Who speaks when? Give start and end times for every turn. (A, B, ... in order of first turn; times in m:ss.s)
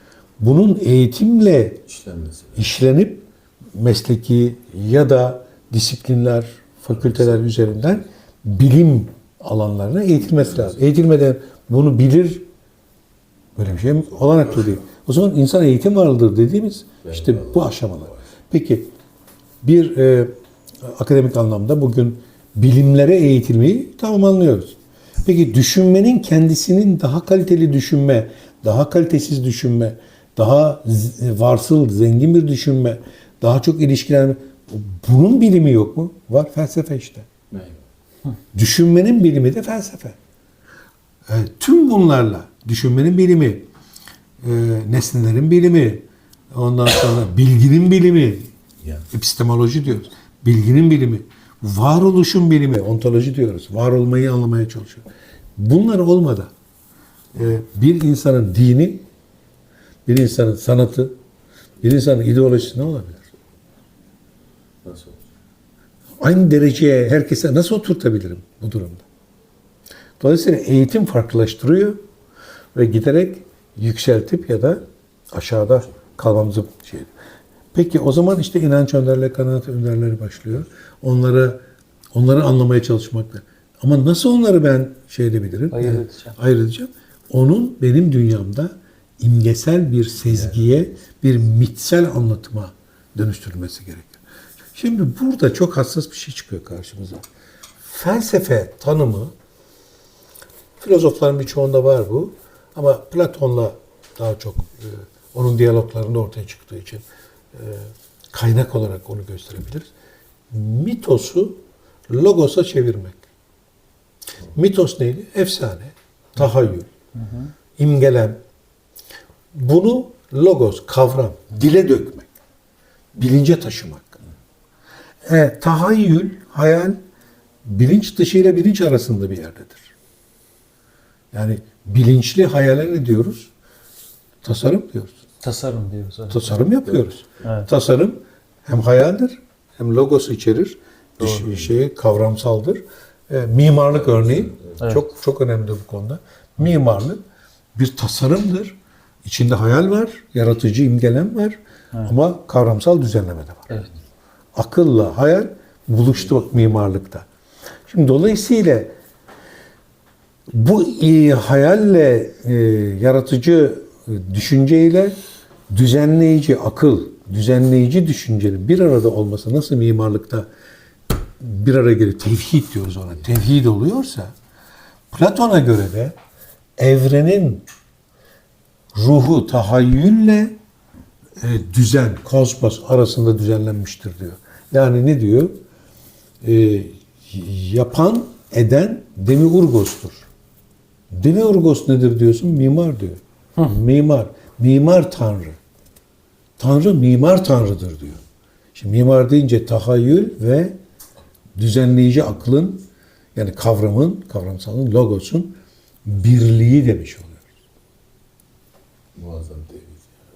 0:00.4-0:01.8 A
0:01.9-0:02.6 B
0:02.6-0:12.4 A
0:10.4-0:10.7 B
0:13.6-0:18.9 A
0:17.0-0:17.7 B
0:19.6-0:20.3 A
0:20.8-0:37.3 A
0:37.5-0:37.8 B
0:38.5-0:40.2 A
0:41.3-0:43.6 A
0:44.4-0:48.5 A
0:49.1-0:55.0 A
0:55.6-0:56.5 A
0:57.3-0:59.0 A
1:00.0-1:01.1 A
1:01.8-1:03.3 A
1:04.8-1:05.2 B
1:06.2-1:09.0 A
1:10.2-1:12.0 A
1:12.7-1:17.1 A
1:17.7-1:21.6 A
1:22.1-1:34.2 A
1:25.7-1:26.3 C
1:34.7-1:37.2 A
1:37.8-1:39.3 A
1:40.8-1:49.9 A
1:50.5-1:53.2 A
1:54.5-1:56.9 A
1:57.2-1:57.5 C
1:57.8-1:58.4 A
1:59.5-2:02.3 A
2:03.2-2:04.2 A
2:05.2-2:07.0 A
2:07.6-2:09.9 A
2:11.3-2:13.5 A
2:14.4-2:15.2 A
2:15.4-2:16.6 C
2:16.3-2:27.2 A
2:24.8-2:25.0 C
2:27.7-2:33.8 A
2:34.6-2:37.3 A
2:37.9-2:38.9 A
2:40.5-2:45.2 A
2:45.7-2:50.5 A
2:51.4-2:54.3 A
2:55.1-2:56.2 A
2:56.8-2:57.6 A
2:58.9-3:00.6 A
3:01.4-3:05.6 A
3:06.4-3:10.3 A
3:11.1-3:15.6 A
3:16.6-3:18.2 A
3:18.7-3:20.8 A
3:21.6-3:27.4 A
3:29.2-3:30.2 B